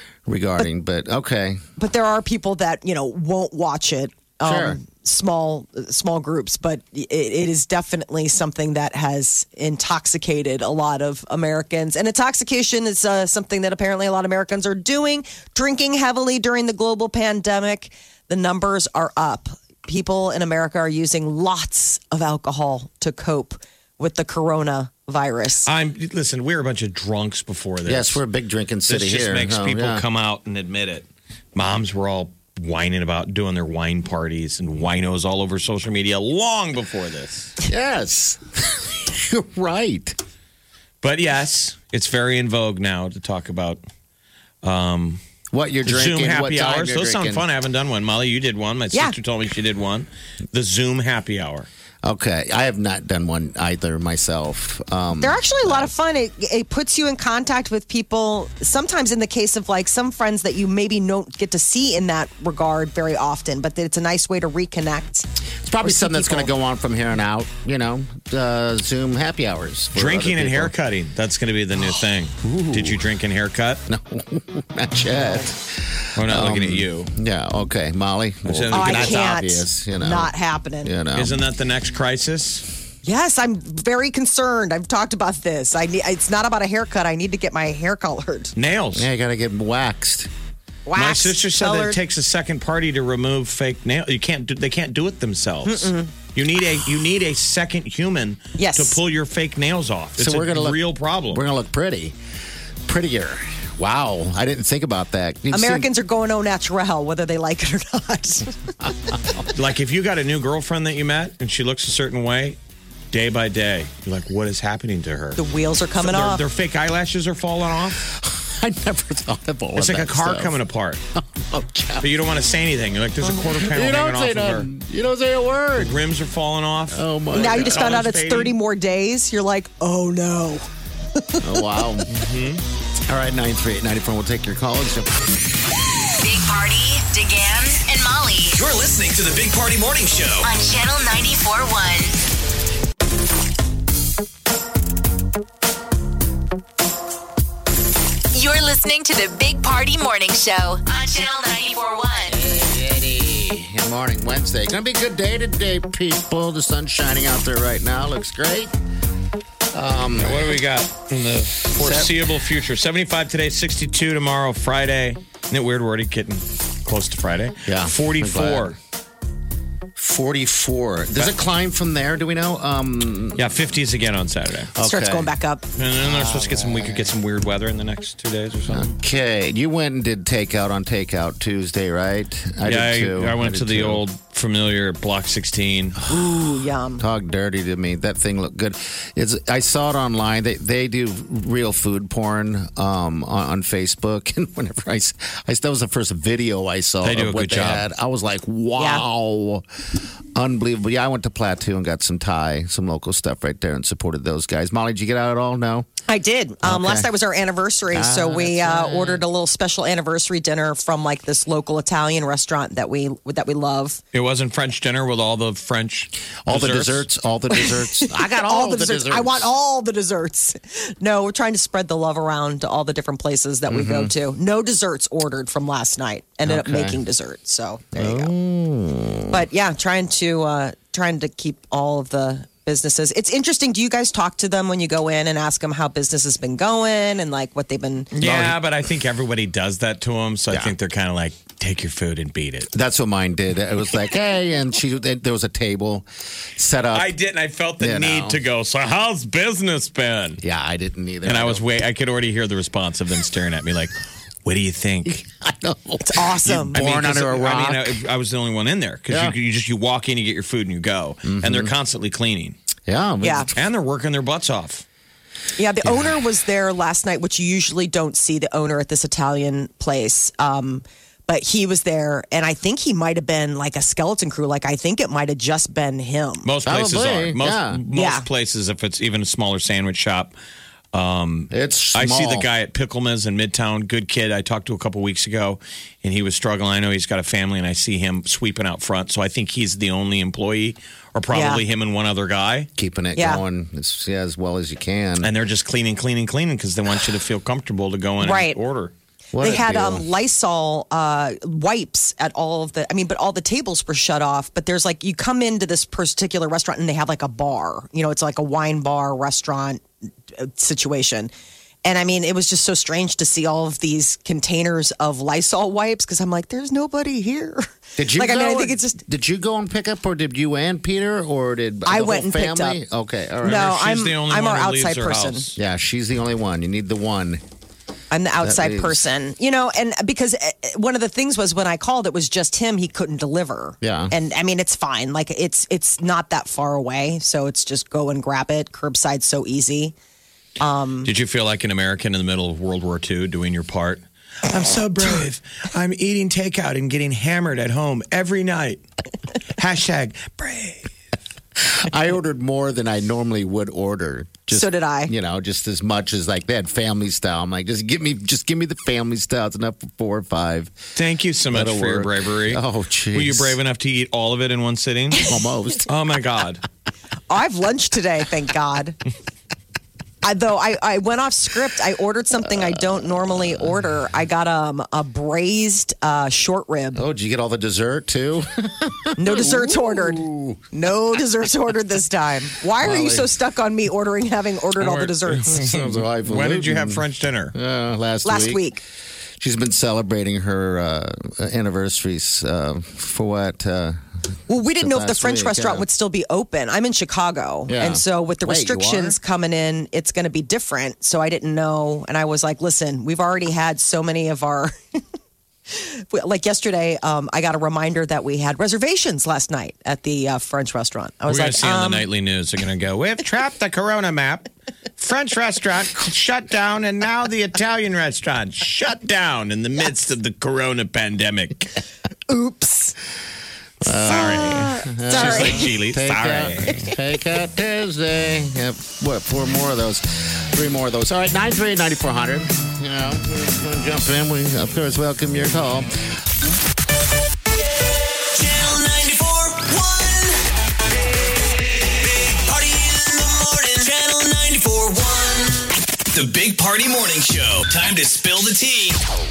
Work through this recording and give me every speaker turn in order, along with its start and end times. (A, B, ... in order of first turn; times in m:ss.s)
0:00.2-0:01.6 A
0:01.8-0:25.7 B
0:04.4-0:04.8 A
0:25.6-0:28.2 C
0:27.8-0:30.0 A
0:28.9-0:37.6 C
0:37.6-0:40.2 A
0:41.0-0:43.8 C
0:44.6-0:45.2 C
0:45.5-0:47.4 A
0:45.8-0:51.7 C
0:52.0-0:55.9 A
0:55.2-1:05.3 B
1:05.6-1:10.7 A
1:05.8-1:06.5 B
1:09.9-1:13.8 C
1:12.4-1:13.0 A
1:13.9-1:20.3 A
1:16.1-1:17.1 C
1:18.4-1:19.2 C
1:18.7-1:20.9 B
1:20.8-1:21.4 A
1:21.1-1:22.6 C
1:23.0-1:28.5 B
1:28.6-1:29.1 C
1:28.9-1:30.3 A
1:30.9-1:32.0 B
1:31.0-1:41.4 C
1:35.6-1:36.1 B
1:38.6-1:39.0 B
1:40.2-1:42.2 A
1:42.9-1:45.9 A
1:45.5-1:48.5 B
1:48.8-1:49.5 A
1:49.5-1:52.6 C
1:53.1-1:55.4 C
1:55.4-1:56.4 B
1:56.0-1:58.0 C
1:58.0-2:00.6 A
1:59.7-2:01.0 C
2:01.2-2:02.1 A
2:02.0-2:04.7 C
2:03.2-2:06.0 A
2:05.8-2:08.6 C
2:06.9-2:08.0 A
2:07.3-2:10.7 B
2:11.4-2:12.1 A
2:12.1-2:12.6 C
2:13.1-2:15.1 A
2:16.2-2:18.6 D
2:18.5-2:20.5 E
2:20.4-2:22.2 D
2:28.3-2:32.4 D
2:32.3-2:38.7 A
2:39.7-2:40.6 A
2:40.2-2:48.8 C
2:41.8-2:42.1 A
2:47.6-2:48.8 A
2:50.0-2:53.4 A
2:53.4-2:54.7 C
2:54.7-2:55.3 A
2:54.8-2:55.6 B
2:55.8-2:58.9 C
2:56.0-2:57.1 A
2:58.7-3:04.0 A
3:02.6-3:06.0 C
3:06.1-3:07.0 B
3:07.0-3:25.9 A
3:17.0-3:17.9 C
3:18.8-3:19.0 B
3:26.1-3:34.0 B
3:26.6-3:27.1 A
3:27.9-3:29.2 A
3:34.1-3:37.0 C
3:36.4-3:39.5 A
3:37.5-3:48.3 B
3:43.7-3:44.1 A
3:46.4-3:47.0 A
3:47.9-3:49.4 A
3:49.3-3:58.1 B
3:58.1-4:02.7 C
3:58.2-3:58.6 A
4:02.7-4:07.1 A
4:06.9-4:10.4 C
4:07.8-4:08.4 A
4:10.4-4:11.6 A
4:11.2-4:15.2 C
4:15.0-4:18.0 A
4:16.0-4:16.8 B
4:16.7-4:22.6 C
4:19.1-4:19.3 A
4:21.2-4:21.7 A
4:22.9-4:23.5 A
4:23.2-4:23.5 B
4:23.5-4:24.8 C
4:25.6-4:36.5 B
4:25.8-4:26.1 A
4:36.4-4:40.3 C
4:36.6-4:37.8 A
4:37.9-4:38.3 B
4:40.9-4:52.7 C
4:41.5-4:42.5 A
4:51.3-4:51.6 B
4:52.8-4:55.3 A
4:53.2-4:53.4 B
4:55.2-4:58.9 C
4:58.2-4:58.6 B
4:59.3-5:00.1 A
4:59.4-5:09.8 B
5:10.4-5:11.3 B
5:11.8-5:19.0 B
5:18.0-5:23.8 A
5:21.8-5:22.8 B
5:23.4-5:25.5 B
5:23.4-5:25.6 C
5:25.6-5:27.4 A
5:28.1-5:39.9 B
5:28.4-5:29.0 A
5:33.8-5:34.1 A
5:40.6-5:41.1 B
5:41.0-5:48.8 C
5:49.6-5:50.9 C
5:51.6-6:00.8 A
5:54.5-5:55.1 B
6:01.0-6:02.6 C
6:01.5-6:03.6 A
6:03.1-6:05.3 C
6:05.2-6:05.9 A
6:05.8-6:06.6 C
6:07.3-6:09.0 B
6:10.2-6:17.0 B
6:12.7-6:13.6 A
6:16.9-6:20.6 A
6:19.2-6:25.5 B
6:22.8-6:23.3 A
6:24.8-6:27.5 C
6:25.5-6:28.6 A
6:28.2-6:28.8 B
6:29.4-6:34.0 A
6:34.5-6:45.0 B
6:34.8-6:35.8 A
6:37.7-6:39.2 A
6:45.7-6:52.0 B
6:51.3-7:01.7 C
7:02.3-7:02.9 B
7:03.8-7:15.9 A
7:04.0-7:06.9 C
7:04.0-7:05.6 B
7:18.3-7:20.4 E
7:21.7-7:29.0 E